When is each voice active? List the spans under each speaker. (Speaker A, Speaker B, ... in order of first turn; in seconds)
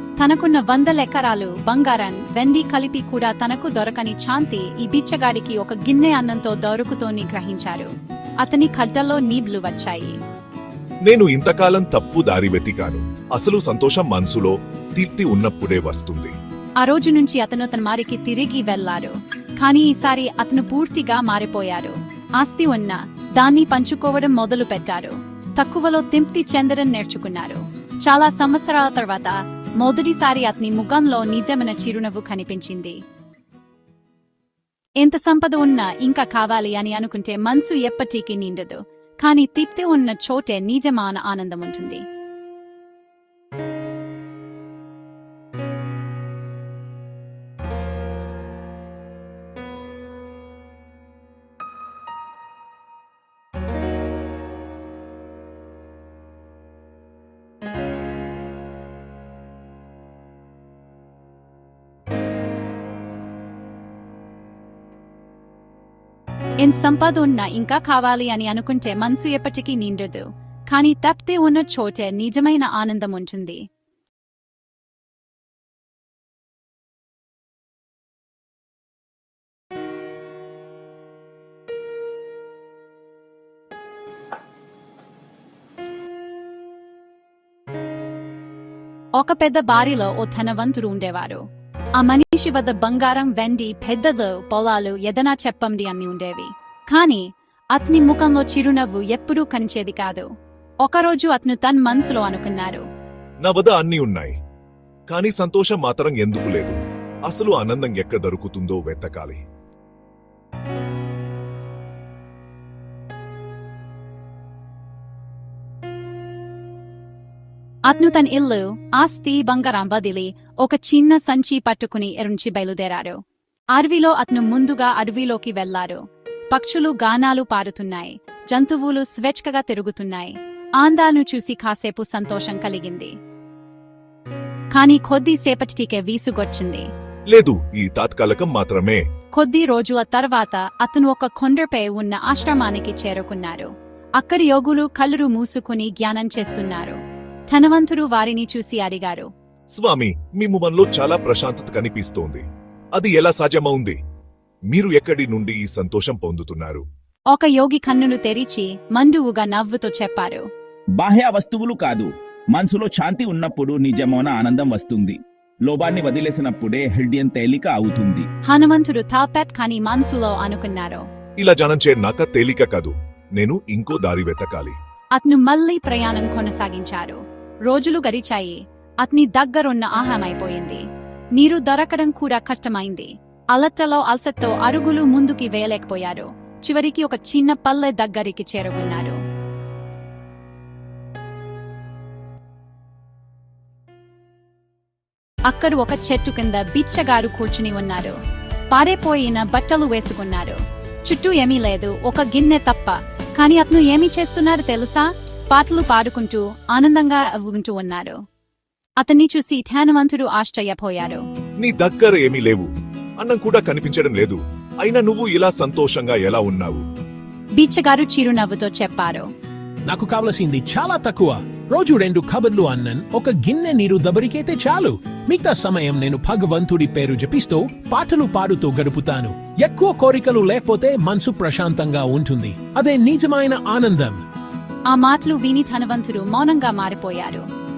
Speaker A: 0.2-7.9, 8.4-10.2, 16.8-33.0, 35.0-42.0, 66.6-73.6, 89.2-91.4, 92.0-100.3, 100.8-102.8, 117.9-123.2, 123.7-133.2, 134.7-136.9, 139.3-147.0, 147.5-149.3, 157.3-160.5, 168.5-171.0, 175.2-180.8, 181.3-189.2, 195.5-198.2, 198.7-208.2, 209.0-211.2, 217.6-219.3, 234.9-237.4
Speaker B: 11.1-16.3, 103.4-104.3, 105.1-109.4, 137.3-139.0, 149.7-152.4, 153.0-154.0, 154.7-156.8, 171.4-174.8, 211.6-212.7, 213.2-216.8
Speaker C: 161.0-168.2
Speaker D: 219.9-234.2